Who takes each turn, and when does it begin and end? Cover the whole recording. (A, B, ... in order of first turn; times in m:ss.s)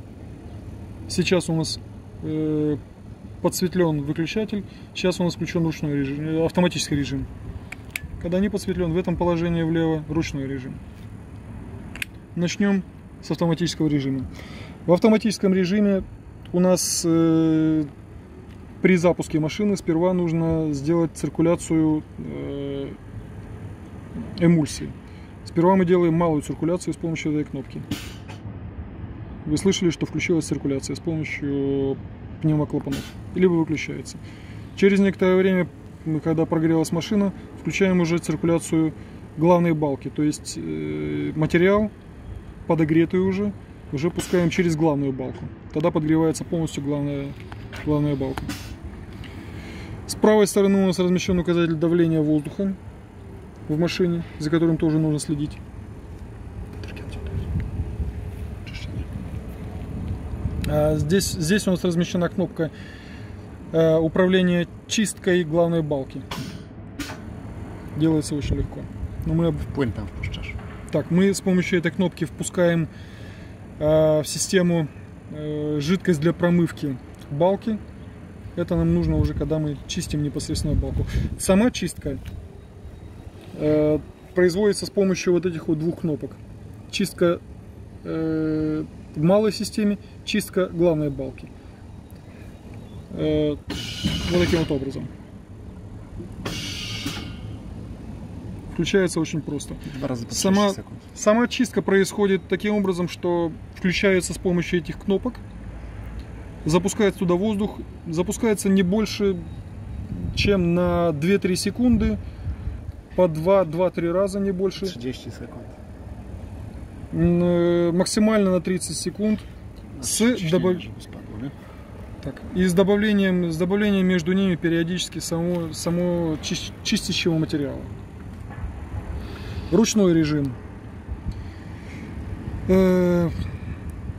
0:01.1-0:02.8 A
0:03.4-0:07.3 A
0:08.2-0:10.8 A
0:12.3-0:14.3 A
0:14.8-0:17.9 A
0:18.8-0:23.0 A
0:24.4-0:24.9 A
0:25.4-0:27.8 A
0:29.4-0:34.2 A
0:34.8-0:41.9 A
0:42.6-0:48.5 A
0:50.0-0:52.8 A
0:53.7-0:55.6 A
0:56.8-0:57.1 B
0:58.7-0:59.0 B
1:00.6-1:02.7 A
1:03.7-1:06.3 A
1:07.9-1:09.7 A
1:09.7-1:10.6 B
1:10.9-1:12.9 A
1:13.8-1:17.8 A
1:18.6-1:22.2 A
1:23.5-1:27.4 A
1:28.0-1:31.5 A
1:33.1-1:33.6 A
1:34.2-1:35.1 A
1:38.7-1:45.4 A
1:39.8-1:41.0 B
1:46.6-1:49.5 A
1:50.1-1:52.2 A
1:53.1-1:55.0 A
1:54.8-1:55.7 B
1:57.1-1:59.4 A
1:59.9-2:01.5 B
2:00.0-2:00.8 A
2:02.2-2:07.9 A
2:09.7-2:10.6 A
2:12.7-2:13.3 A